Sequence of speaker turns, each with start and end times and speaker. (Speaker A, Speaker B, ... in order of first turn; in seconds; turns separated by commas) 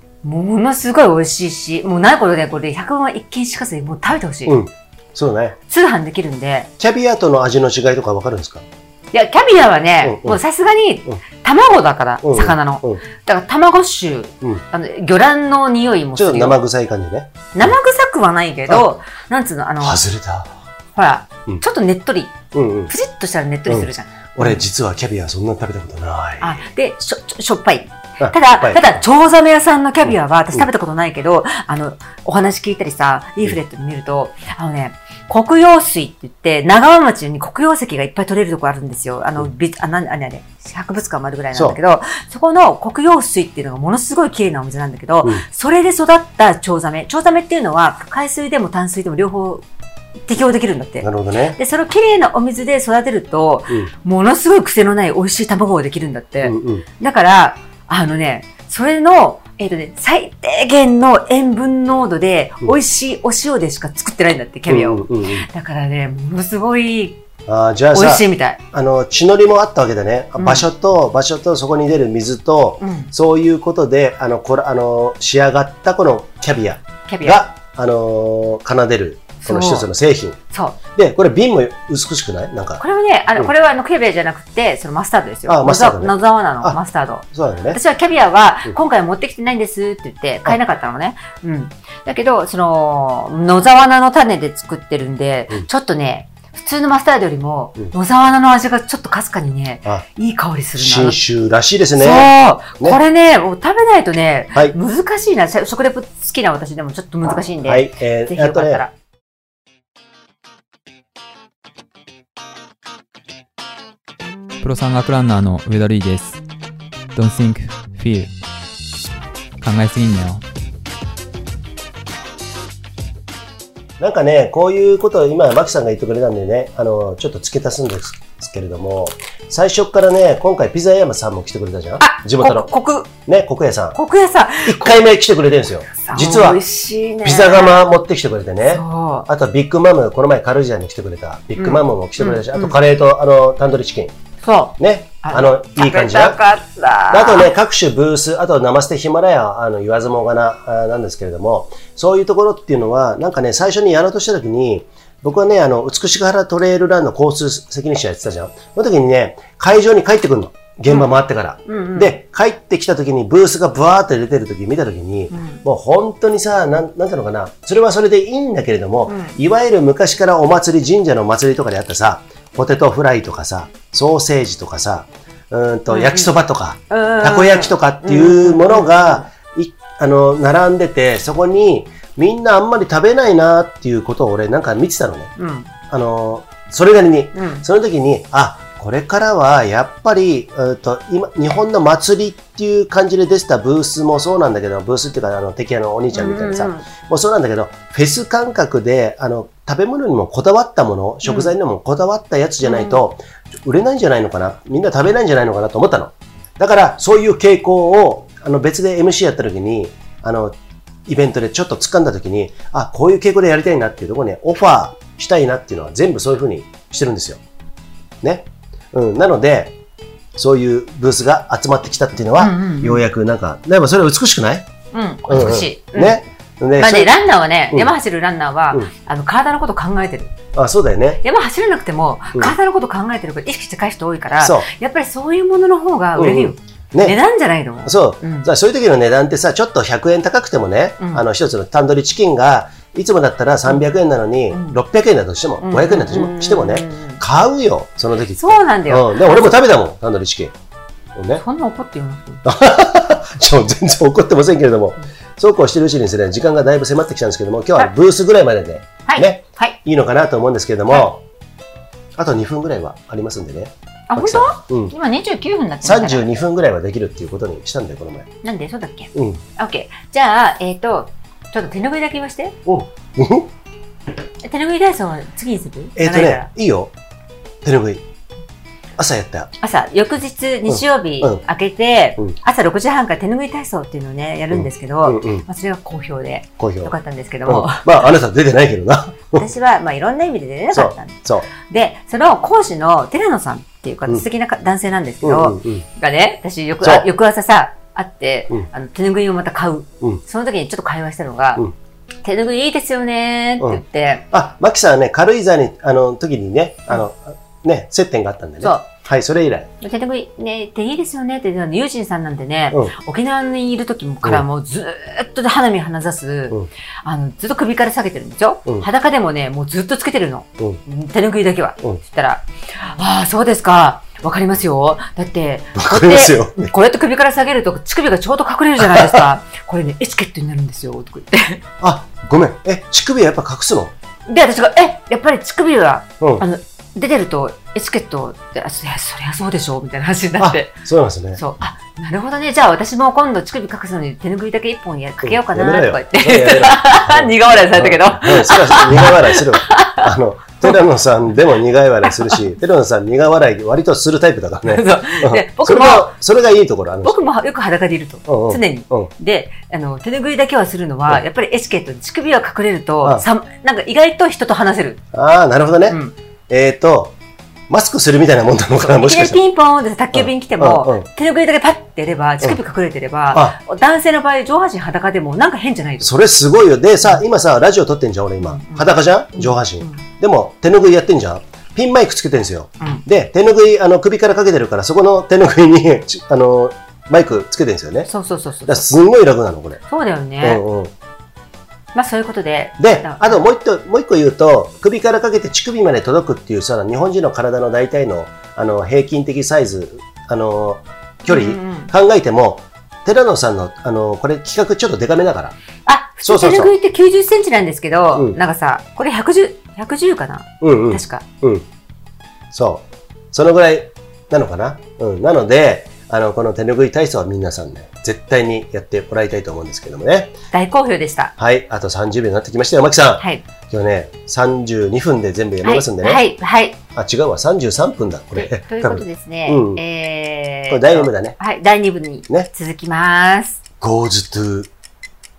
Speaker A: 0.2-4.6, Speaker B: 4.5-5.6, Speaker A: 5.7-6.7, Speaker B: 6.8-8.6, Speaker A: 9.1-16.6, Speaker B: 10.0-10.4, Speaker B: 12.2-13.0, Speaker B: 16.1-17.7, Speaker A: 17.5-20.0, Speaker B: 19.8-20.5, Speaker A: 20.9-22.4, Speaker B: 22.5-22.9, Speaker A: 22.9-24.6, Speaker B: 23.7-26.6, Speaker A: 26.4-49.6, Speaker B: 28.2-29.0, Speaker A: 50.3-67.2, Speaker B: 51.0-51.6, Speaker B: 56.4-56.9, Speaker B: 64.7-65.4, Speaker B: 67.5-82.8, Speaker A: 67.9-68.6, Speaker A: 70.4-70.7, Speaker A: 72.8-73.1, Speaker A: 77.1-77.4, Speaker A: 79.4-79.9, Speaker A: 80.5-80.8, Speaker A: 82.8-101.2, Speaker B: 85.5-86.8, Speaker B: 87.3-87.8, Speaker B: 100.8-103.0, Speaker A: 102.0-108.9, Speaker B: 107.6-108.8, Speaker C: 114.6-116.4, Speaker C: 117.1-118.3, Speaker C: 119.6-120.4, Speaker B: 124.0-134.0, Speaker A: 132.0-133.1, Speaker A: 133.9-135.1, Speaker B: 134.6-136.6, Speaker A: 136.0-137.8, Speaker B: 137.2-144.1, Speaker A: 138.6-139.3, Speaker A: 141.6-142.8, Speaker A: 144.4-147.5, Speaker B: 144.8-146.4, Speaker B: 147.1-185.3, Speaker A: 161.7-162.2, Speaker A: 165.3-165.6, Speaker A: 169.1-169.4, Speaker A: 175.9-176.3, Speaker A: 176.9-179.3, Speaker A: 185.4-185.7, Speaker B: 185.9-217.4, Speaker A: 187.3-187.6, Speaker A: 196.1-196.9, Speaker A: 201.2-201.5, Speaker A: 202.6-203.0, Speaker B: 218.2-219.8, Speaker B: 220.4-224.7, Speaker A: 222.4-223.1, Speaker A: 224.9-226.2, Speaker B: 225.3-227.1, Speaker A: 226.8-230.3, Speaker B: 230.5-231.2, Speaker A: 231.2-238.5, Speaker B: 234.4-234.7, Speaker B: 236.2-237.2, Speaker B: 237.8-250.5, Speaker A: 241.0-241.2, Speaker A: 244.5-244.8, Speaker A: 245.6-247.2, Speaker A: 248.4-249.5, Speaker B: 251.2-251.4, Speaker A: 251.4-252.4, Speaker B: 252.4-261.2, Speaker A: 259.1-259.8, Speaker B: 262.2-264.9, Speaker A: 264.1-266.3, Speaker B: 265.8-268.3, Speaker A: 268.4-272.6, Speaker B: 269.1-269.4, Speaker B: 272.6-273.5, Speaker A: 274.4-276.5, Speaker B: 275.9-276.9, Speaker B: 277.6-278.0, Speaker B: 279.0-279.5, Speaker A: 279.6-288.1, Speaker B: 280.7-281.4, Speaker B: 284.5-285.5, Speaker B: 286.6-286.9, Speaker B: 287.4-289.5, Speaker A: 289.3-301.6, Speaker B: 290.7-291.5, Speaker B: 295.2-295.9, Speaker B: 296.8-297.1, Speaker A: 302.2-304.3, Speaker B: 304.3-309.7, Speaker A: 308.6-308.9, Speaker A: 309.8-331.6, Speaker B: 325.8-326.7, Speaker B: 328.9-329.2, Speaker B: 331.8-333.9, Speaker A: 334.3-340.8, Speaker B: 336.2-336.4, Speaker B: 340.4-341.4, Speaker A: 341.4-350.8, Speaker B: 345.2-357.2, Speaker A: 352.0-352.5, Speaker A: 354.6-356.2, Speaker A: 357.0-365.0, Speaker B: 358.3-359.1, Speaker B: 365.1-367.1, Speaker A: 365.9-366.1, Speaker B: 367.7-369.4, Speaker A: 368.8-376.1, Speaker B: 370.1-371.1, Speaker B: 376.0-388.1, Speaker A: 378.4-380.0, Speaker A: 388.1-388.8, Speaker B: 388.6-389.8, Speaker A: 389.9-390.6, Speaker B: 390.4-390.9, Speaker A: 391.9-393.4, Speaker B: 392.8-405.6, Speaker A: 401.3-401.9, Speaker A: 405.9-411.2, Speaker B: 406.2-406.7, Speaker B: 410.6-411.6, Speaker B: 412.5-420.4, Speaker A: 420.5-421.4, Speaker B: 421.4-426.2, Speaker A: 423.2-423.4, Speaker A: 425.6-426.8, Speaker B: 426.9-429.8, Speaker A: 428.4-433.6, Speaker B: 430.7-431.4, Speaker B: 433.8-434.7